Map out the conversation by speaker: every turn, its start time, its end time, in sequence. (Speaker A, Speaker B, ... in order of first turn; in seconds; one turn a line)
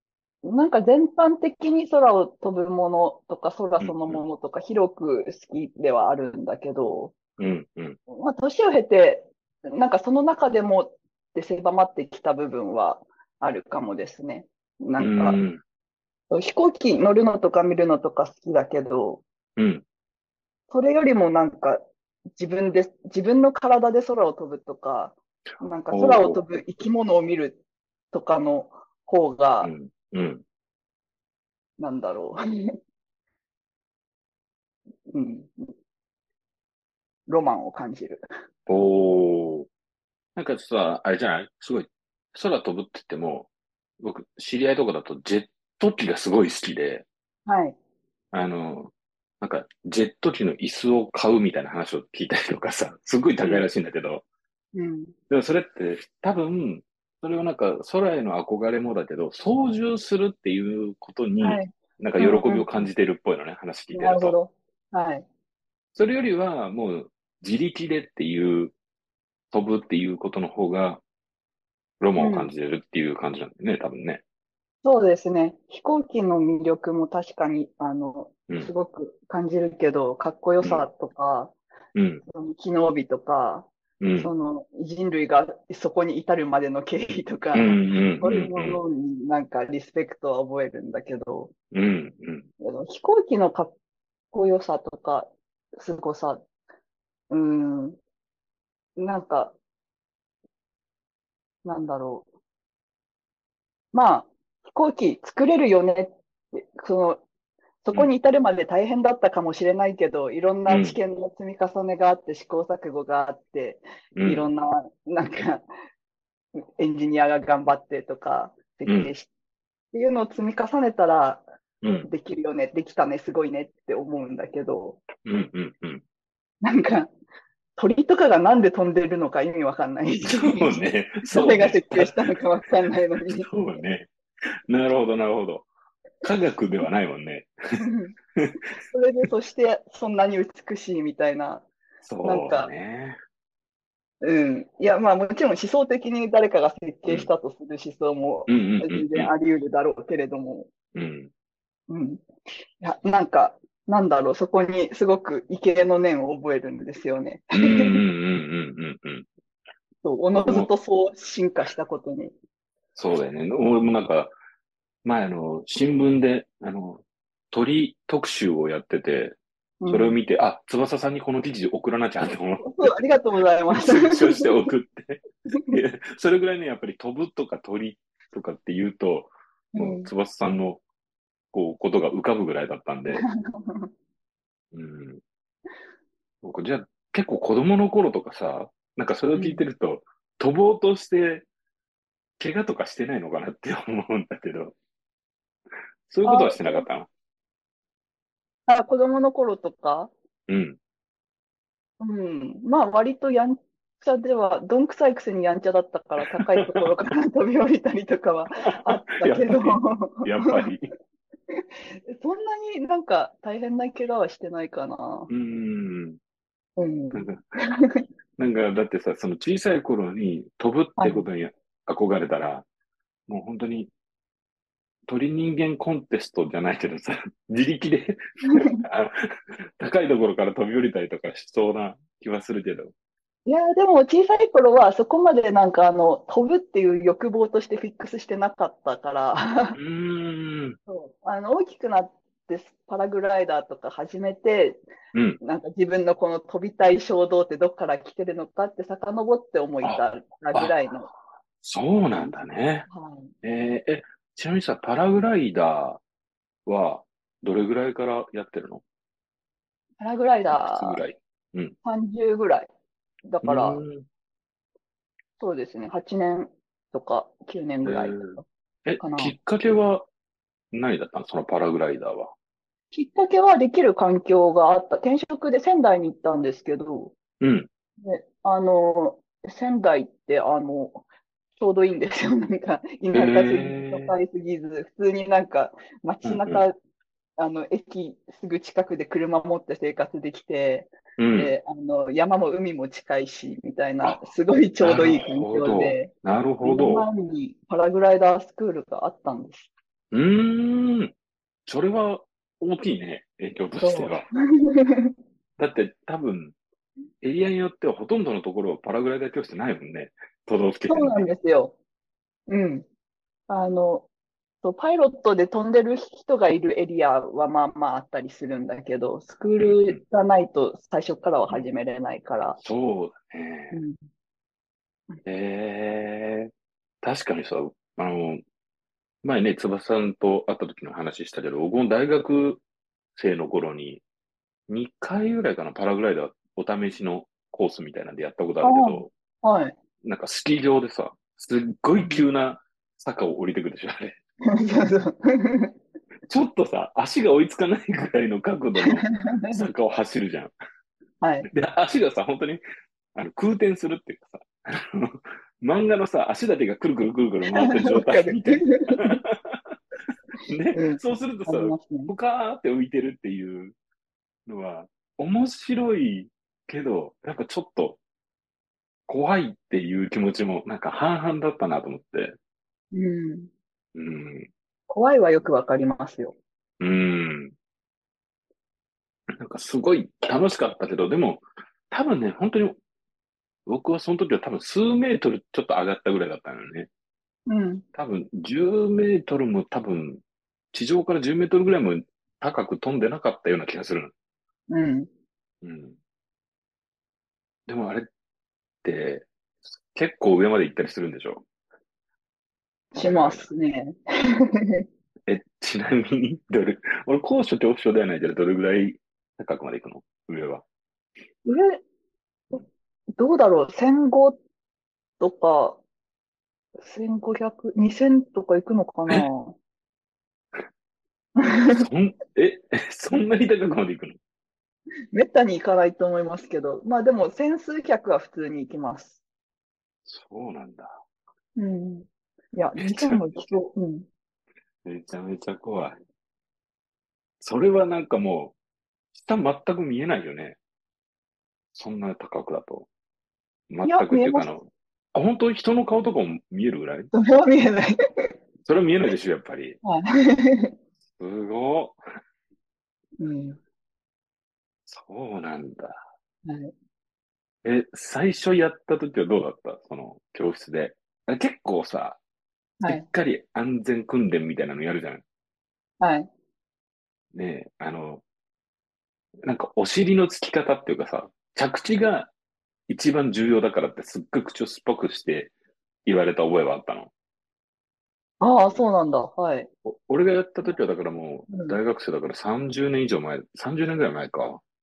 Speaker A: 0.4-7.1
Speaker B: 3.8-4.2
Speaker B: 7.4-8.0
Speaker A: 8.1-15.4
Speaker B: 15.0-15.6
Speaker A: 16.3-19.2
Speaker B: 19.6-19.8
Speaker A: 20.7-21.8
Speaker A: 22.4-27.6
Speaker B: 25.9-26.4
Speaker A: 28.1-29.7
Speaker B: 29.6-30.4
Speaker A: 31.8-32.7
Speaker A: 35.1-35.7
Speaker A: 37.3-38.3
Speaker B: 38.7-39.7
Speaker B: 40.4-43.5
Speaker B: 44.0-47.0
Speaker A: 47.5-47.8
Speaker B: 48.3-54.2
Speaker A: 53.4-53.7
Speaker A: 54.8-55.1
Speaker B: 55.3-64.4
Speaker A: 61.4-62.7
Speaker A: 63.9-65.3
Speaker B: 66.0-68.7
Speaker B: 69.5-71.0
Speaker B: 72.0-74.2
Speaker A: 72.2-72.5
Speaker A: 74.8-81.5
Speaker B: 80.6-80.9
Speaker B: 82.0-82.2
Speaker A: 82.3-83.7
Speaker B: 84.0-84.3
Speaker A: 84.2-91.5
Speaker B: 87.5-88.8
Speaker B: 91.7-92.5
Speaker A: 92.6-93.7
Speaker A: 94.3-96.4
Speaker A: 97.3-98.0
Speaker A: 99.0-99.5
Speaker A: 101.7-102.3
Speaker A: 103.9-107.2
Speaker A: 107.8-115.7
Speaker B: 110.7-111.0
Speaker B: 114.2-114.5
Speaker A: 116.8-119.3
Speaker B: 118.9-119.1
Speaker A: 119.9-121.4
Speaker B: 121.8-122.1
Speaker A: 122.0-125.0
Speaker B: 125.3-126.0
Speaker A: 126.6-127.1
Speaker A: 127.8-130.8
Speaker B: 130.2-132.4
Speaker A: 131.3-133.5
Speaker B: 133.3-134.1
Speaker B: 134.7-135.7
Speaker B: 136.2-137.5
Speaker A: 137.8-138.2
Speaker B: 138.4-138.7
Speaker A: 138.7-141.7
Speaker B: 142.0-143.2
Speaker A: 142.2-142.7
Speaker A: 144.2-150.7
Speaker B: 148.5-149.3
Speaker B: 150.9-151.3
Speaker A: 151.9-152.2
Speaker A: 152.8-157.9
Speaker B: 157.5-159.3
Speaker A: 160.0-162.3
Speaker B: 160.3-160.7
Speaker B: 162.9-164.3
Speaker B: 165.0-169.4
Speaker A: 169.8-170.2
Speaker B: 169.9-173.0
Speaker A: 172.6-174.5
Speaker B: 173.7-180.8
Speaker A: 175.5-175.8
Speaker A: 179.7-180.1
Speaker B: 181.5-183.2
Speaker A: 183.1-183.9
Speaker B: 184.7-185.2
Speaker B: 186.4-191.5
Speaker A: 189.3-189.7
Speaker B: 192.4-194.7
Speaker B: 196.1-197.1
Speaker A: 196.2-196.8
Speaker A: 198.7-200.1
Speaker B: 200.5-200.8
Speaker A: 202.0-210.7
Speaker B: 206.4-206.8
Speaker B: 208.7-210.9
Speaker A: 211.5-215.3
Speaker B: 215.3-216.2
Speaker A: 216.8-218.0
Speaker B: 217.1-217.4
Speaker B: 218.4-222.7
Speaker A: 221.0-221.3
Speaker B: 223.3-223.9
Speaker B: 225.1-229.1
Speaker A: 228.5-228.8
Speaker B: 229.8-232.9
Speaker A: 233.5-239.8
Speaker B: 239.8-240.8
Speaker A: 240.9-244.8
Speaker B: 245.1-245.4
Speaker A: 245.4-251.1
Speaker B: 249.8-250.8
Speaker B: 251.6-252.9
Speaker A: 252.2-253.3
Speaker B: 253.4-256.0
Speaker B: 256.7-258.8
Speaker A: 260.0-261.0
Speaker B: 260.5-261.8
Speaker A: 261.8-262.7
Speaker A: 263.3-263.8
Speaker B: 263.4-264.1
Speaker A: 265.4-268.5
Speaker B: 267.8-270.1
Speaker A: 269.0-269.4
Speaker B: 270.7-272.3
Speaker A: 272.9-277.1
Speaker B: 277.4-277.7
Speaker A: 278.0-281.0
Speaker A: 281.6-286.8
Speaker B: 283.1-284.1
Speaker B: 286.2-286.6
Speaker A: 287.4-296.1
Speaker B: 291.2-291.5
Speaker B: 294.8-297.1
Speaker A: 296.6-299.7
Speaker B: 300.1-301.1
Speaker B: 301.7-304.3
Speaker A: 303.8-305.1
Speaker B: 305.6-306.6
Speaker B: 307.2-311.3
Speaker A: 310.9-311.8
Speaker A: 312.5-312.9
Speaker A: 313.5-314.1
Speaker A: 314.6-322.6
Speaker B: 319.6-320.0
Speaker B: 322.6-323.8
Speaker A: 323.7-324.0
Speaker B: 325.2-326.5
Speaker B: 327.0-328.4
Speaker B: 329.2-332.6
Speaker B: 333.2-334.0
Speaker B: 334.7-339.1
Speaker A: 338.6-339.8
Speaker B: 340.0-344.2
Speaker A: 342.0-342.3
Speaker A: 344.5-345.7
Speaker B: 346.3-350.5
Speaker A: 348.8-349.6
Speaker A: 351.2-351.5
Speaker B: 351.5-352.6
Speaker B: 353.1-359.7
Speaker A: 357.5-359.2
Speaker B: 360.4-363.8
Speaker A: 360.7-362.1
Speaker B: 364.5-368.0
Speaker B: 369.1-372.4
Speaker A: 372.9-373.5
Speaker B: 373.9-374.5
Speaker A: 374.9-376.4
Speaker B: 376.8-377.6
Speaker B: 379.4-382.8
Speaker B: 383.7-386.9
Speaker A: 387.5-387.9
Speaker B: 387.9-390.2
Speaker B: 390.7-394.1
Speaker A: 394.7-395.1
Speaker B: 395.6-396.0
Speaker B: 397.7-398.1
Speaker B: 398.8-401.4
Speaker A: 402.9-404.8
Speaker B: 403.0-403.5
Speaker B: 405.3-410.6
Speaker A: 411.4-411.8
Speaker A: 413.2-414.4
Speaker A: 415.2-415.8
Speaker A: 416.8-419.6
Speaker A: 421.4-421.8
Speaker B: 421.7-424.2
Speaker A: 425.1-429.2
Speaker B: 430.1-431.0
Speaker A: 431.6-434.1
Speaker B: 432.8-433.4
Speaker B: 434.9-436.0
Speaker B: 437.4-438.6
Speaker B: 439.1-440.6
Speaker B: 441.7-442.9
Speaker B: 443.7-447.1
Speaker A: 443.9-444.5
Speaker A: 447.1-448.3
Speaker B: 448.6-449.8
Speaker A: 449.8-450.7
Speaker B: 451.2-452.0
Speaker A: 453.2-453.6
Speaker B: 454.9-456.0
Speaker A: 456.4-456.7
Speaker B: 457.6-462.2
Speaker A: 462.8-463.1
Speaker B: 462.8-465.2
Speaker A: 466.0-466.3
Speaker B: 467.3-468.2
Speaker B: 469.4-472.3
Speaker B: 472.9-475.5
Speaker B: 476.1-477.1
Speaker A: 478.4-479.7
Speaker B: 479.9-484.6
Speaker A: 481.5-481.8